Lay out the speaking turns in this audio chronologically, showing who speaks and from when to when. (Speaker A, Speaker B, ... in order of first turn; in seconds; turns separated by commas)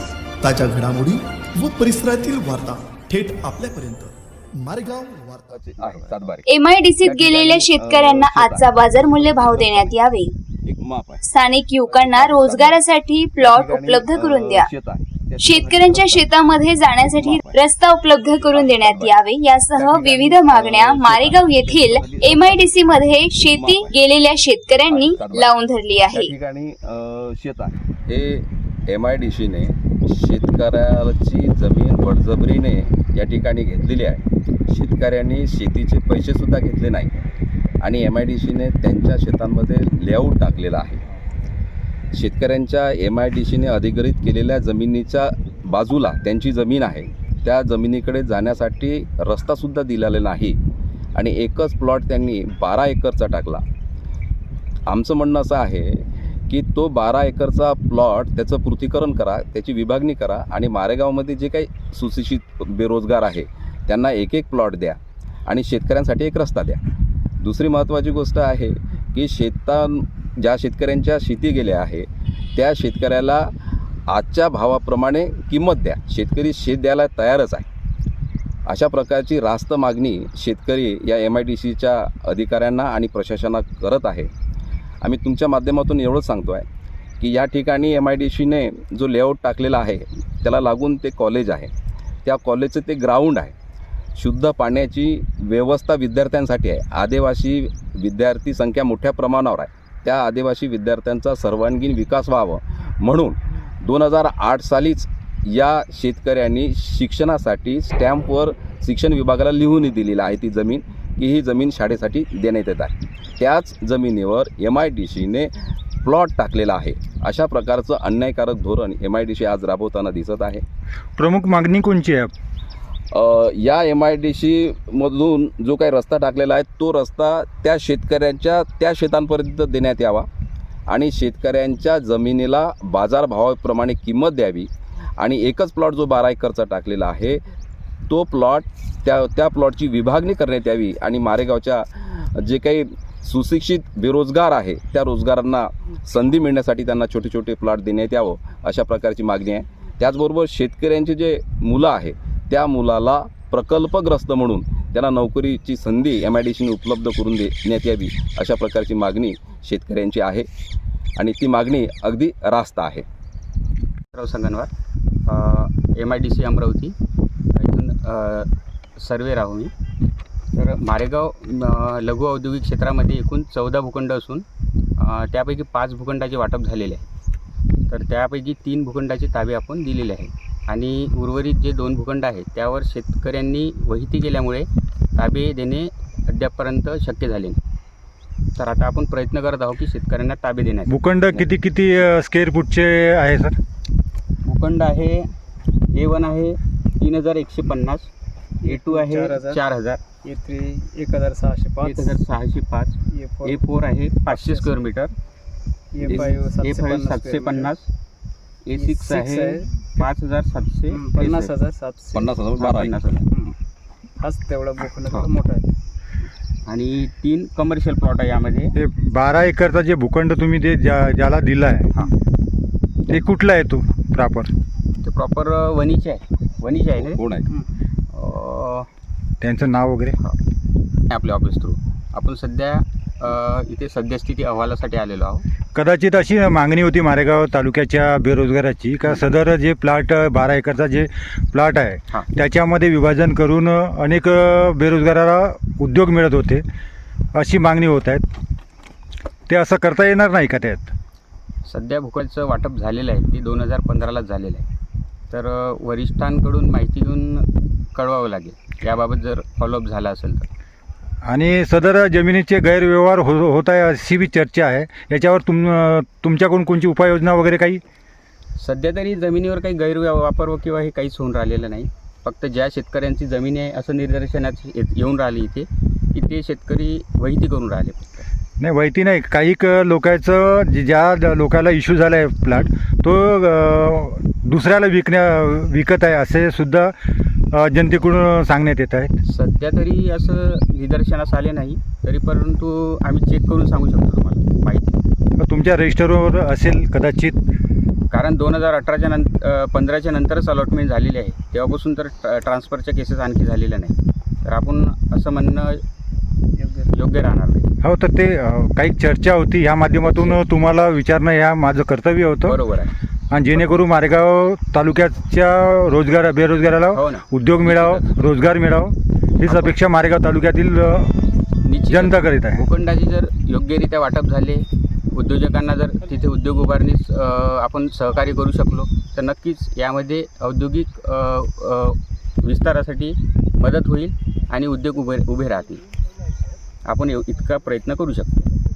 Speaker A: 0.4-5.7, Speaker B: 5.5-6.5, Speaker C: 6.5-10.3, Speaker B: 7.0-9.9, Speaker B: 10.7-11.2, Speaker C: 11.2-14.7, Speaker B: 11.9-12.8, Speaker B: 13.4-16.3, Speaker C: 15.4-26.3, Speaker B: 16.9-17.6, Speaker B: 18.2-19.2, Speaker B: 19.7-24.0, Speaker B: 24.8-25.6, Speaker B: 26.1-37.2, Speaker B: 37.8-41.0, Speaker B: 42.1-50.6, Speaker B: 51.1-53.6, Speaker B: 54.9-66.8, Speaker B: 67.4-73.5, Speaker B: 74.1-77.7, Speaker B: 78.7-84.3, Speaker B: 85.0-86.7, Speaker B: 87.2-91.7, Speaker B: 92.2-93.5, Speaker B: 94.2-115.5, Speaker B: 116.0-120.6, Speaker D: 121.2-122.3, Speaker B: 123.1-130.3, Speaker B: 130.9-137.4, Speaker B: 138.1-160.5, Speaker B: 161.2-163.1, Speaker E: 164.1-164.7, Speaker E: 165.3-166.9, Speaker E: 167.6-169.7, Speaker E: 170.6-174.4, Speaker E: 175.0-177.0, Speaker E: 177.9-187.6, Speaker E: 188.6-191.5, Speaker D: 190.9-193.6, Speaker E: 194.4-195.3, Speaker E: 195.9-198.1, Speaker F: 198.6-199.6, Speaker E: 198.6-200.0, Speaker F: 200.2-202.2, Speaker E: 201.8-205.1, Speaker F: 203.1-203.6, Speaker F: 204.3-204.8, Speaker F: 205.9-207.7, Speaker E: 206.1-207.9, Speaker E: 208.7-211.6, Speaker F: 208.8-209.7, Speaker F: 210.9-212.3, Speaker B: 212.1-213.5, Speaker E: 212.6-213.4, Speaker F: 214.2-215.7, Speaker E: 216.7-218.7, Speaker D: 218.8-221.9, Speaker D: 223.1-224.5, Speaker E: 225.0-227.2, Speaker B: 227.0-227.5, Speaker E: 228.1-228.9, Speaker D: 229.4-230.2, Speaker E: 231.1-235.4, Speaker D: 235.7-246.6, Speaker D: 247.3-248.2, Speaker D: 249.5-250.9, Speaker E: 251.7-254.7, Speaker E: 255.3-260.5, Speaker D: 261.3-267.8, Speaker E: 268.6-278.3, Speaker D: 278.6-286.9, Speaker D: 287.5-289.1, Speaker E: 289.2-295.0, Speaker D: 295.4-297.4, Speaker E: 298.1-305.8, Speaker F: 306.6-306.9, Speaker E: 306.9-307.7, Speaker D: 307.8-312.6, Speaker E: 310.1-310.4, Speaker E: 312.5-312.9, Speaker D: 313.3-321.1, Speaker E: 316.9-318.1, Speaker E: 321.6-335.8, Speaker D: 321.9-322.6, Speaker E: 336.9-338.4